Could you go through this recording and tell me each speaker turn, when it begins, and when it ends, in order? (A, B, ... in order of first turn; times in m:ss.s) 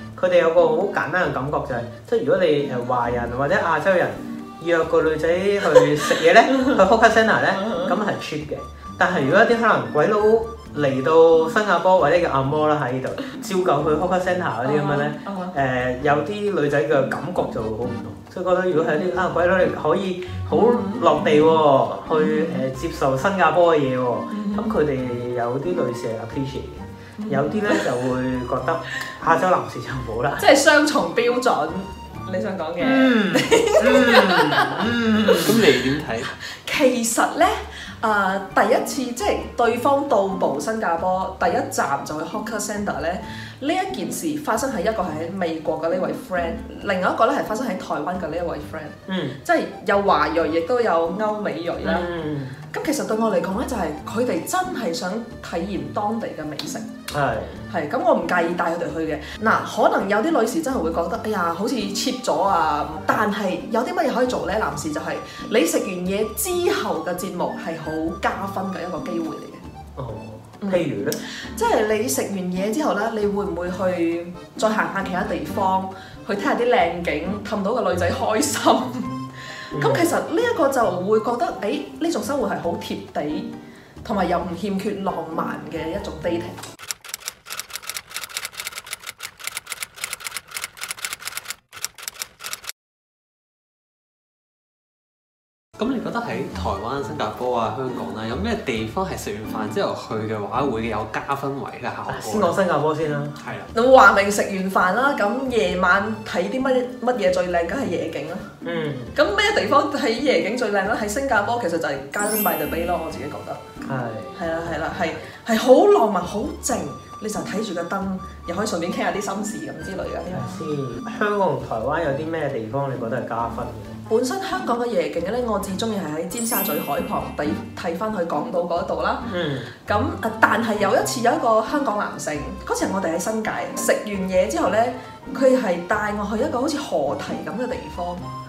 0:00.2-0:30.5 A
0:07.6-0:07.9 B
0:14.6-0:15.6 B
0:20.5-0:21.1 B
0:22.2-0:22.6 B
0:24.3-0:24.8 B
0:27.2-0:27.9 B
0:30.4-0:35.7 B
0:32.8-0:35.7 A
0:35.3-0:36.3 C
0:36.5-0:52.1 B
0:49.1-0:49.4 A
0:51.8-0:52.6 A
0:52.7-0:56.9 B
0:57.1-0:57.6 A
0:57.7-1:09.6 B
1:10.0-1:11.2 A
1:10.6-1:23.5 B
1:19.7-1:20.1 A
1:24.0-1:26.6 B
1:35.8-1:42.6 C
1:42.1-1:43.4 A
1:43.4-1:43.7 C
1:43.7-1:48.5 B
1:48.6-1:49.2 A
1:49.1-1:53.6 B
1:53.8-1:54.7 A
1:54.4-2:00.5 B
2:00.3-2:04.0 A
2:04.1-2:18.2 B
2:09.3-2:09.7 A